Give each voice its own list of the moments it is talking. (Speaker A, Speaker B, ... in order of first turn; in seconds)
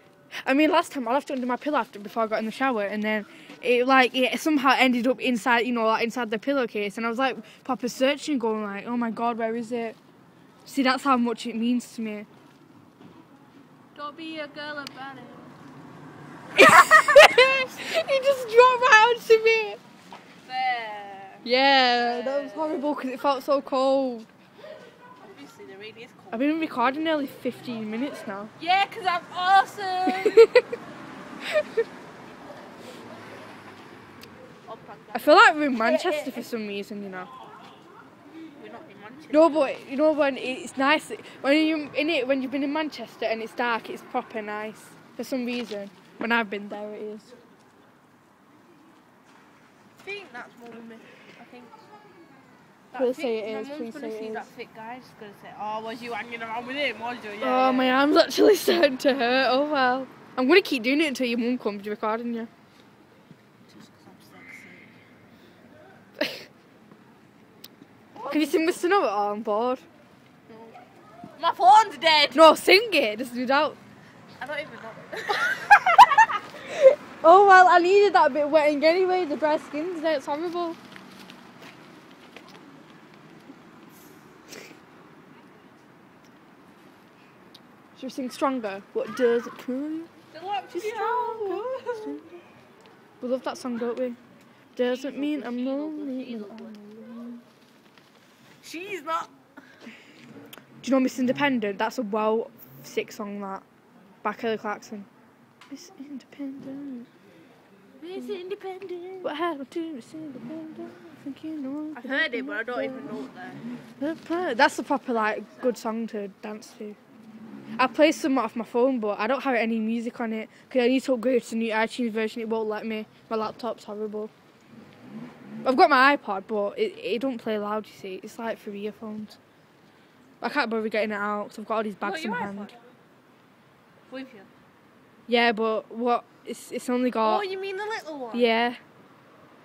Speaker A: 0.4-10.0, 10.7-12.3, 16.6-19.8, 21.4-24.3, 26.3-28.5, 30.1-30.6, 35.1-37.3, 39.3-47.3, 53.0-54.5, 57.4-62.5, 68.2-69.8, 72.3-73.8, 76.7-80.8, 88.0-90.1, 90.7-92.4, 93.2-94.2, 94.8-97.4, 100.8-103.6, 104.2-105.1, 105.7-107.1, 109.2-113.1, 114.0-117.0, 117.8-124.3, 125.6-129.4, 130.4-132.7, 135.3-137.5, 138.3-138.8
Speaker B: 13.9-15.5, 17.0-17.7, 20.4-22.9, 25.2-26.5, 28.6-30.5, 34.6-36.5, 38.6-39.8, 50.0-51.8, 52.9-58.0, 63.7-65.0, 68.2-68.7, 70.5-70.8, 71.4-72.5, 74.4-76.1, 90.3-92.2, 94.8-96.8, 98.6-99.3, 108.0-109.3, 111.9-113.6, 115.2-115.8, 132.0-132.8, 134.1-134.5, 137.2-138.6